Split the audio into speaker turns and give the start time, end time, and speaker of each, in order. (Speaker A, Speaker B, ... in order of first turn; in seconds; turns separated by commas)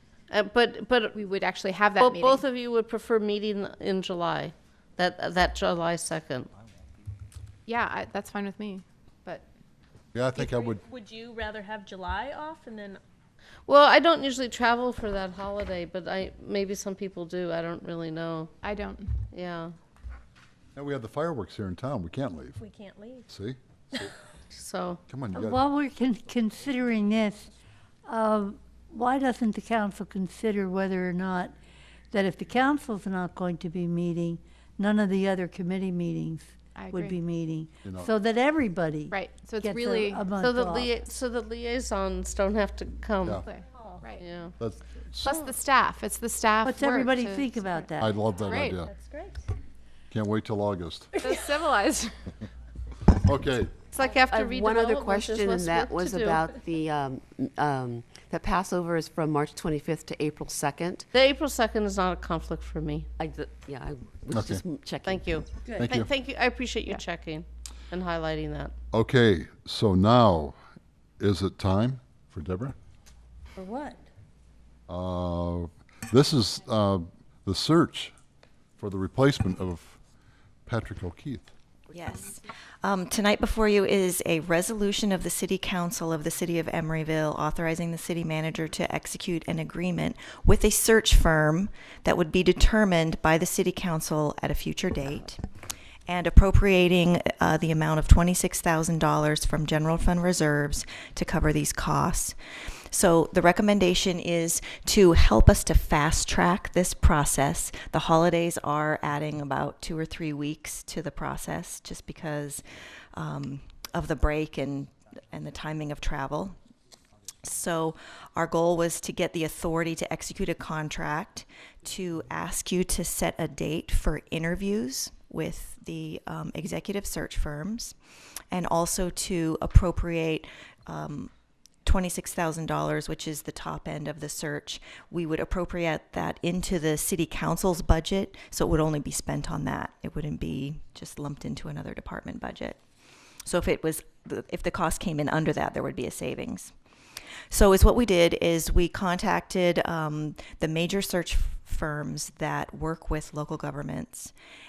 Speaker A: 0.3-1.2, Speaker B: 1.1-2.4, Speaker A: 2.0-6.5, Speaker B: 7.7-9.5, Speaker C: 10.1-10.8, Speaker D: 10.3-13.0, Speaker A: 13.7-18.5, Speaker B: 18.6-19.1, Speaker A: 19.3-19.7, Speaker C: 20.8-22.6, Speaker D: 22.6-23.3, Speaker C: 23.3-24.0, Speaker A: 24.5-25.0, Speaker C: 25.1-25.6, Speaker E: 25.3-27.5, Speaker E: 28.1-31.5, Speaker E: 32.1-40.9, Speaker B: 36.8-37.2, Speaker C: 37.8-38.1, Speaker B: 39.1-40.3, Speaker A: 40.4-43.4, Speaker B: 43.4-44.2, Speaker D: 43.8-44.0, Speaker A: 44.2-44.6, Speaker C: 44.6-45.3, Speaker B: 45.2-48.8, Speaker E: 46.6-48.2, Speaker C: 48.0-48.9, Speaker D: 48.8-49.4, Speaker C: 50.1-51.1, Speaker D: 51.1-51.4, Speaker B: 51.2-52.1, Speaker C: 53.2-53.8, Speaker A: 53.9-56.5, Speaker F: 54.3-61.1, Speaker A: 61.1-63.1, Speaker F: 63.2-65.4, Speaker C: 64.3-64.6, Speaker A: 65.0-68.8, Speaker C: 65.8-66.1, Speaker C: 68.9-70.6, Speaker C: 71.2-72.8, Speaker C: 74.9-78.1, Speaker C: 78.8-80.0, Speaker C: 80.7-81.5, Speaker G: 81.9-95.4, Speaker G: 96.1-102.3, Speaker G: 102.9-112.6, Speaker G: 113.1-116.5, Speaker G: 117.4-128.0, Speaker G: 128.5-131.3, Speaker G: 131.8-142.8, Speaker G: 143.4-146.7, Speaker G: 147.5-154.3